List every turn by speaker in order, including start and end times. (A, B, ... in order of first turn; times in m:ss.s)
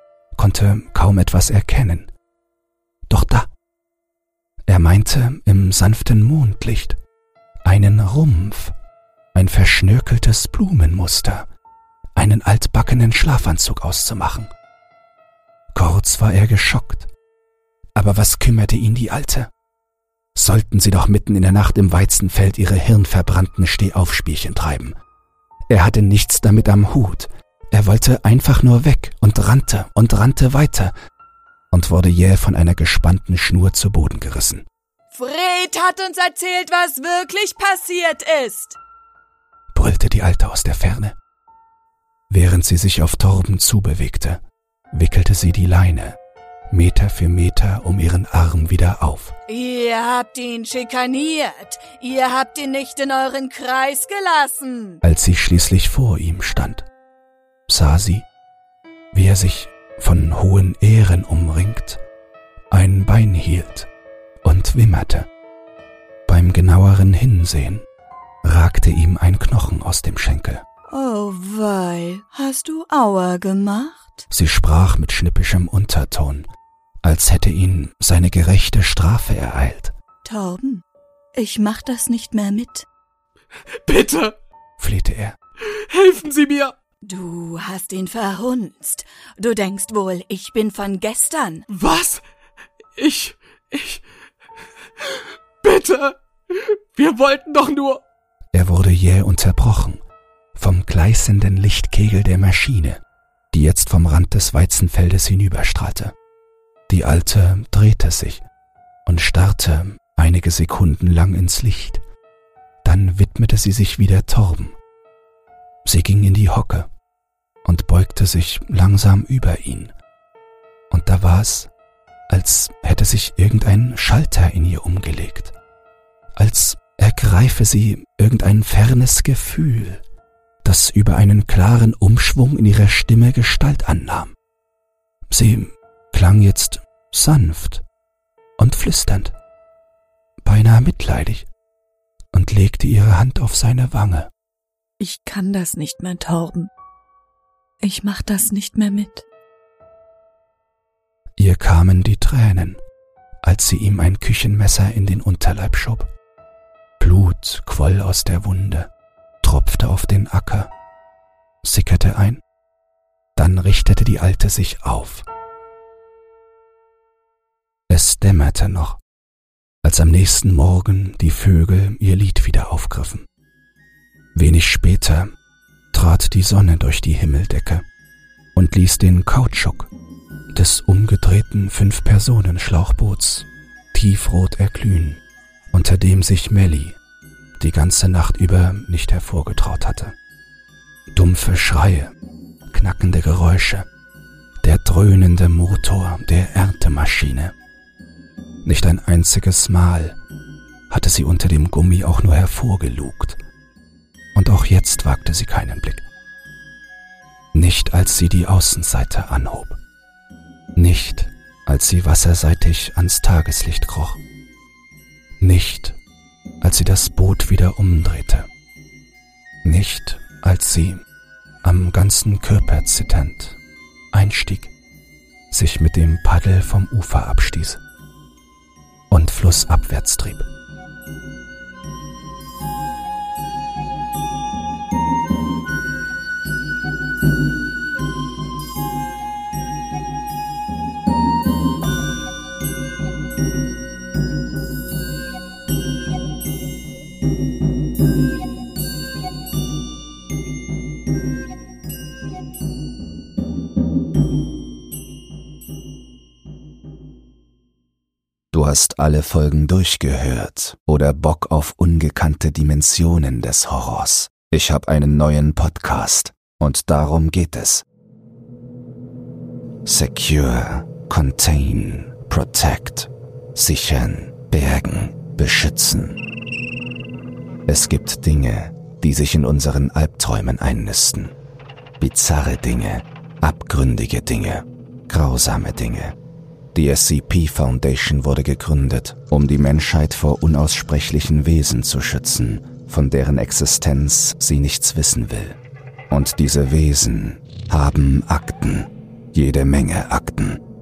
0:00.4-0:02.1 A
0:03.1-0:03.5 A
0:04.7-0:07.0 A
0:07.6-0:08.8 A
0:09.3-0:11.5 A
0:12.2-0:14.5 A
0:15.7-0:17.1 A
0:18.0-0:19.5 A
0:20.4-0:25.0 A
0:25.7-0:30.9 A
0:31.7-0:34.7 A
0:35.1-0:38.8 B
0:39.7-0:41.2 A
0:42.3-0:44.4 A
0:44.9-0:46.2 A
0:46.7-0:49.4 A
0:49.5-0:55.0 B
0:55.0-0:56.9 A
0:57.7-0:58.2 A
0:59.1-1:02.0 A
1:02.7-1:03.9 A
1:04.4-1:05.3 A
1:06.3-1:07.8 A
1:08.4-1:10.6 A
1:10.9-1:14.2 B
1:14.3-1:16.5 A
1:17.0-1:19.9 A
1:20.2-1:20.8 B
1:21.4-1:22.9 B
1:23.8-1:24.4 C
1:24.8-1:25.4 A
1:25.7-1:26.7 C
1:27.0-1:31.7 B
1:31.7-1:32.2 C
1:33.0-1:34.0 C
1:35.0-1:38.0 C
1:38.5-1:40.0 A
1:40.6-1:43.0 A
1:43.5-1:46.1 A
1:46.9-1:48.4 A
1:49.1-1:52.0 A
1:52.8-1:54.8 A
1:55.8-1:56.9 A
1:57.6-1:59.9 A
2:00.9-2:01.7 A
2:02.3-2:05.6 A
2:06.4-2:10.0 A
2:10.6-2:14.3 A
2:15.3-2:17.8 A
2:18.6-2:19.3 A
2:20.4-2:21.5 A
2:22.3-2:24.3 A
2:25.0-2:26.7 B
2:27.8-2:29.3 B
2:31.4-2:32.8 A
2:33.4-2:36.1 A
2:37.0-2:38.9 A
2:39.4-2:40.7 A
2:41.6-2:42.4 A
2:43.4-2:45.2 A
2:47.9-2:49.0 A
2:49.8-2:53.3 A
2:54.4-2:55.3 A
2:55.9-2:57.8 A
2:58.6-2:59.9 A
3:00.5-3:05.2 A
3:05.7-3:07.0 A
3:07.6-3:10.2 A
3:11.1-3:12.1 A
3:12.7-3:13.9 A
3:14.6-3:17.6 A
3:18.6-3:20.2 A
3:20.9-3:23.4 A
3:24.4-3:26.1 A
3:27.5-3:29.8 A
3:30.8-3:34.2 A
3:35.4-3:36.0 A
3:36.6-3:38.5 A
3:39.6-3:41.0 A
3:41.6-3:43.6 A
3:44.1-3:44.7 A
3:45.5-3:47.8 A
3:49.1-3:50.5 A
4:18.5-4:27.8 A
4:29.8-4:36.2 A
4:37.7-4:41.4 A
4:42.0-4:46.2 A
4:46.7-4:55.6 A
4:56.1-5:00.6 A